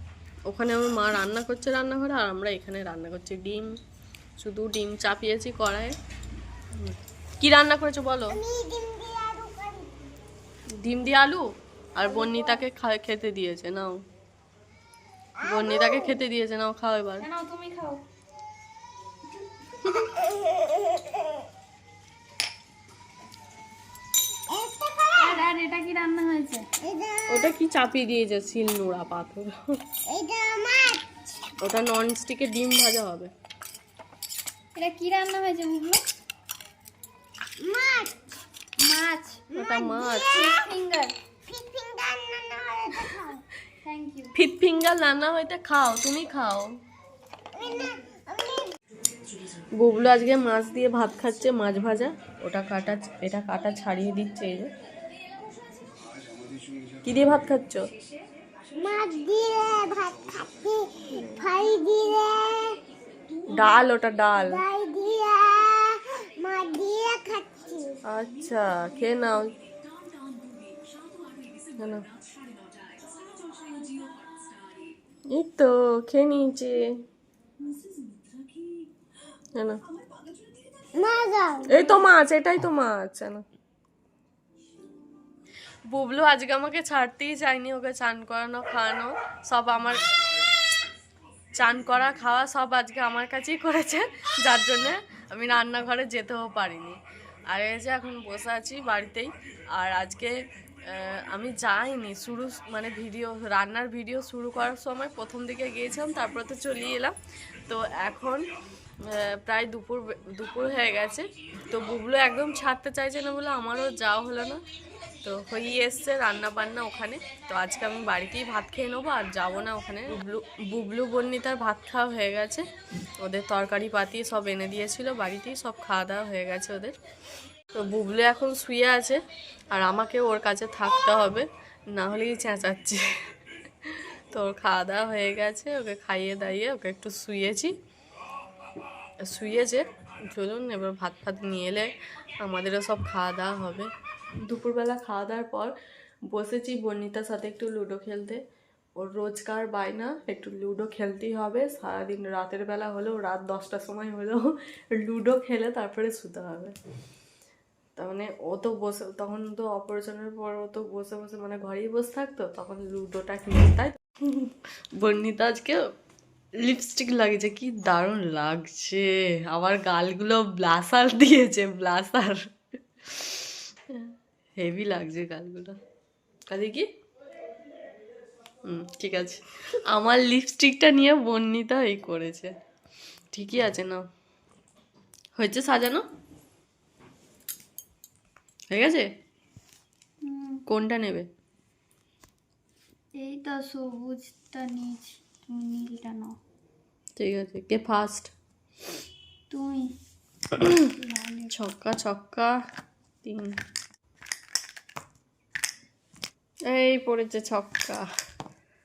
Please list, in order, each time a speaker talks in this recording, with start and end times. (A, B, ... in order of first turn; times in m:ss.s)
0:00.5-0:03.8 A
0:04.4-0:06.0 A
0:06.7-0:08.4 A
0:08.3-0:10.1 B
0:10.8-0:14.0 A
0:12.0-0:12.6 B
0:15.4-0:16.1 B
0:15.4-0:17.3 A
0:17.2-0:18.0 C
0:20.0-0:21.3 B
0:24.5-0:25.4 B
0:25.2-0:26.7 C
0:26.8-0:27.5 B
0:27.3-0:29.8 A
0:30.0-0:31.0 B
0:31.6-0:33.3 A
0:34.7-0:36.0 C
0:37.6-0:38.2 B
0:38.8-0:41.2 C
0:39.5-0:40.5 A
0:39.5-0:40.7 B
0:41.4-0:43.4 B
0:43.8-0:44.3 C
0:44.3-0:46.8 A
0:47.5-0:48.7 B
0:49.6-0:54.7 A
0:57.0-0:57.9 A
0:58.7-1:02.8 B
1:01.1-1:01.4 A
1:03.5-1:04.6 A
1:04.3-1:08.0 B
1:08.0-1:09.6 A
1:11.8-1:12.1 A
1:15.3-1:16.9 A
1:17.7-1:18.2 C
1:19.5-1:19.8 A
1:20.9-1:21.8 B
1:21.6-1:23.4 A
1:25.9-1:30.0 A
1:31.6-1:47.1 A
1:47.7-1:48.5 A
1:49.0-1:54.6 A
1:55.2-2:02.7 A
2:03.2-2:06.9 A
2:07.7-2:13.1 A
2:13.8-2:17.7 A
2:19.2-2:23.9 A
2:24.4-2:25.7 A
2:26.3-2:28.4 A
2:29.0-2:36.8 A
2:38.0-2:45.8 A
2:46.6-2:55.8 A
2:56.5-2:56.9 A
2:58.6-3:02.5 A
3:03.3-3:04.0 A
3:05.3-3:06.0 A
3:08.7-3:09.1 A
3:10.2-3:10.6 C
3:10.7-3:11.3 A
3:13.1-3:16.4 C
3:17.2-3:18.3 A
3:19.5-3:19.9 C
3:20.6-3:20.8 A
3:20.8-3:21.5 C
3:21.5-3:22.6 A
3:23.2-3:23.6 A
3:26.7-3:28.1 A